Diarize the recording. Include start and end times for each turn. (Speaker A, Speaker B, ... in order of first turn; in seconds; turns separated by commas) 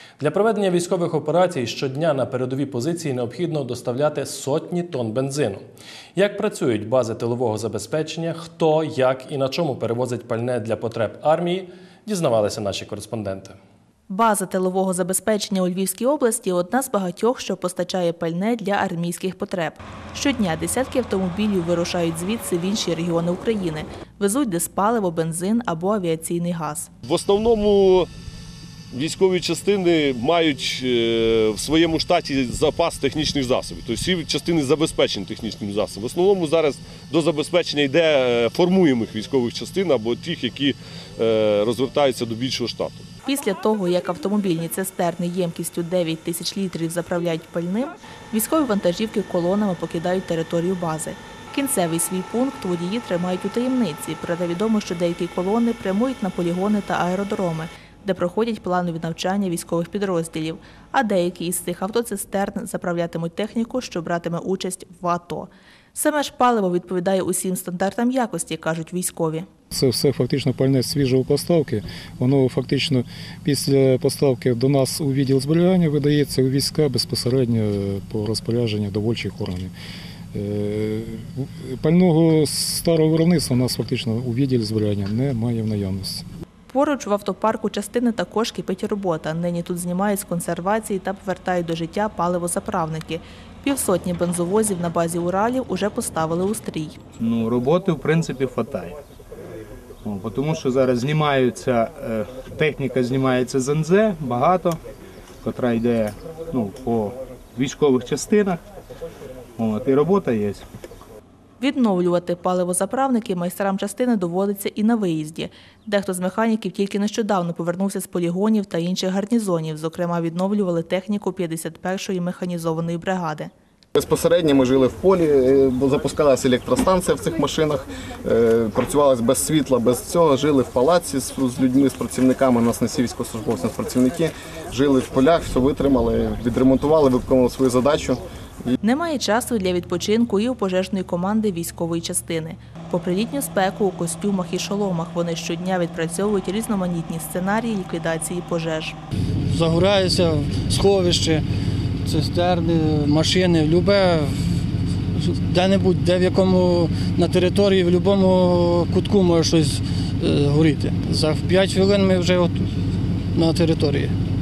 Speaker A: 0.2-5.6, Speaker A: 6.1-13.6, Speaker B: 14.1-26.9, Speaker C: 27.0-28.1, Speaker C: 28.9-43.1, Speaker B: 43.2-69.5, Speaker D: 69.7-79.7, Speaker D: 80.3-86.2, Speaker B: 86.7-97.0, Speaker E: 97.2-99.0, Speaker E: 100.0-104.8, Speaker E: 105.4-108.6, Speaker E: 109.6-110.7, Speaker B: 111.6-123.5, Speaker F: 123.9-138.2, Speaker B: 138.8-149.0, Speaker G: 149.5-151.4, Speaker G: 152.1-154.4, Speaker G: 155.1-162.7, Speaker G: 163.3-164.1